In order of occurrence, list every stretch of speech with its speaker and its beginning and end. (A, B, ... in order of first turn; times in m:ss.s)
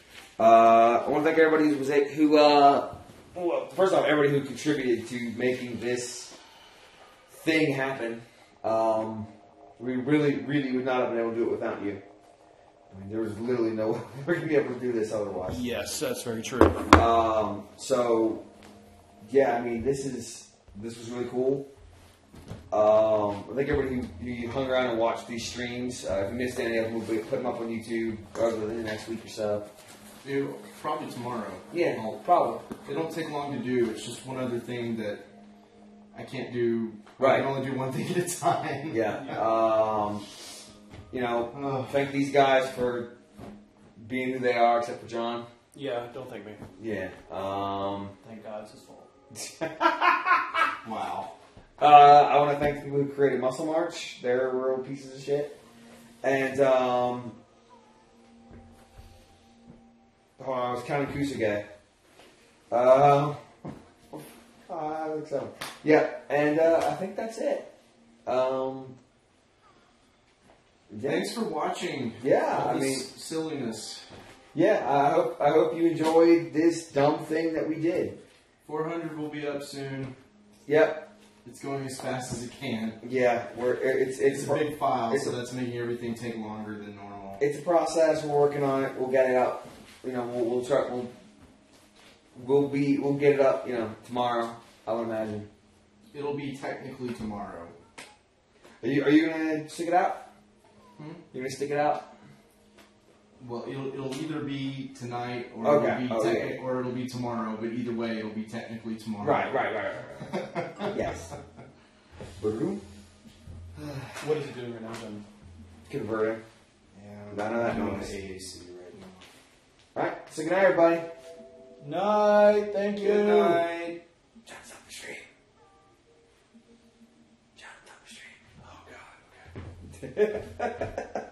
0:00.4-0:06.3 A
0:07.3-0:12.0 A
0:12.9-0:15.6 A
0:15.5-0:17.0 B
0:16.9-0:18.4 A
0:19.2-0:21.7 A
0:22.7-0:29.6 A
0:30.2-0:35.2 C
0:31.7-0:32.7 A
0:36.1-0:39.0 C
0:37.2-0:37.5 A
0:38.9-0:40.2 A
0:39.1-0:39.4 B
0:41.1-0:43.1 A
0:41.5-0:42.1 C
0:44.0-0:45.5 A
0:45.7-0:46.6 B
0:46.8-0:48.2 A
0:48.2-0:49.1 B
0:49.3-0:50.7 A
0:50.8-0:51.3 C
0:51.8-0:55.5 A
0:56.2-0:57.4 A
1:00.4-1:01.7 A
1:02.7-1:03.4 A
1:04.1-1:07.7 A
1:08.3-1:09.0 A
1:10.9-1:11.3 A
1:11.0-1:14.0 C
1:12.2-1:13.1 A
1:14.5-1:18.2 A
1:18.6-1:20.2 C
1:20.7-1:21.1 A
1:21.4-1:23.0 C
1:23.0-1:25.4 A
1:24.2-1:27.4 C
1:27.4-1:31.1 A
1:32.4-1:35.5 A
1:36.1-1:37.8 C
1:38.8-1:40.2 A
1:41.0-1:41.2 C
1:41.3-1:42.1 A
1:43.4-1:49.7 C
1:45.6-1:46.6 A
1:49.2-1:51.3 A
1:50.2-1:51.0 C
1:52.4-1:52.8 A
1:53.8-1:54.2 A
1:54.2-1:55.2 B
1:55.9-1:56.4 A
1:56.9-1:59.2 C
1:57.3-1:58.1 A
2:00.0-2:01.1 A
2:01.8-2:03.8 B
2:03.0-2:04.0 C
2:04.4-2:05.2 A
2:07.6-2:09.0 A
2:09.9-2:11.1 A